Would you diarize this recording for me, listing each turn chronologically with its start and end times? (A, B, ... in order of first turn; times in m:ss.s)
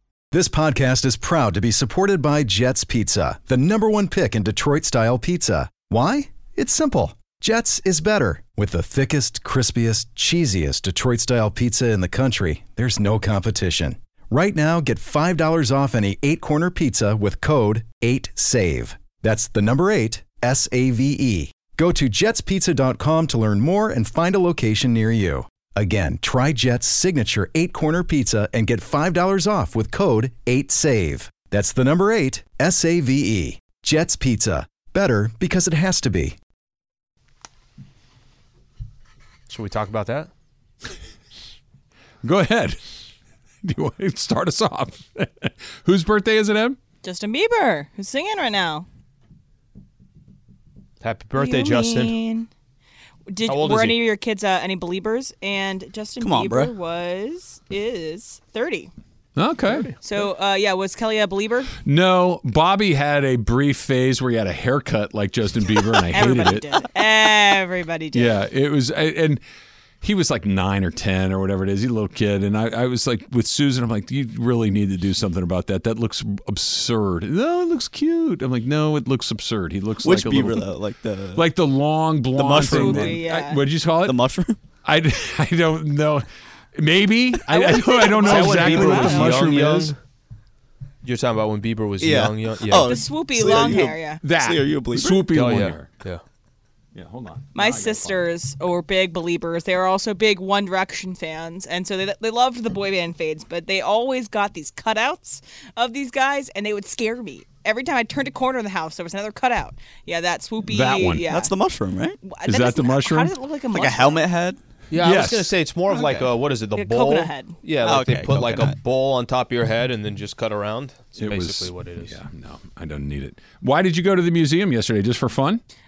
0:00.3-0:36.4 A
0:39.5-0:40.3 B
0:42.2-0:42.8 C
0:43.6-0:46.8 C
0:47.0-0:48.9 D
0:51.0-0:52.2 B
0:51.4-0:52.5 D
0:53.3-0:58.9 D
0:53.5-0:54.0 B
0:56.2-0:56.7 E
0:59.4-0:59.9 C
0:59.7-0:59.9 B
1:00.0-1:01.7 D
1:01.8-1:06.9 C
1:05.8-1:08.4 D
1:08.1-1:09.4 C
1:10.0-1:20.7 C
1:20.0-1:21.5 E
1:21.4-1:24.2 C
1:22.3-1:23.2 E
1:22.6-1:23.6 D
1:24.0-1:24.6 E
1:24.8-1:30.0 C
1:27.5-1:29.4 D
1:28.2-1:30.0 B
1:31.0-1:33.0 B
1:32.0-1:35.3 E
1:32.8-1:34.2 D
1:33.5-1:35.9 C
1:35.3-1:36.2 B
1:37.0-1:38.2 C
1:37.5-1:51.5 D
1:50.7-1:51.2 C
1:51.3-1:52.3 E
1:52.2-1:54.2 D
1:52.4-1:53.3 C
1:53.7-1:54.6 E
1:54.9-2:02.2 B
1:55.0-1:55.6 C
1:55.9-1:57.6 D
1:57.8-1:58.8 E
2:01.2-2:05.6 C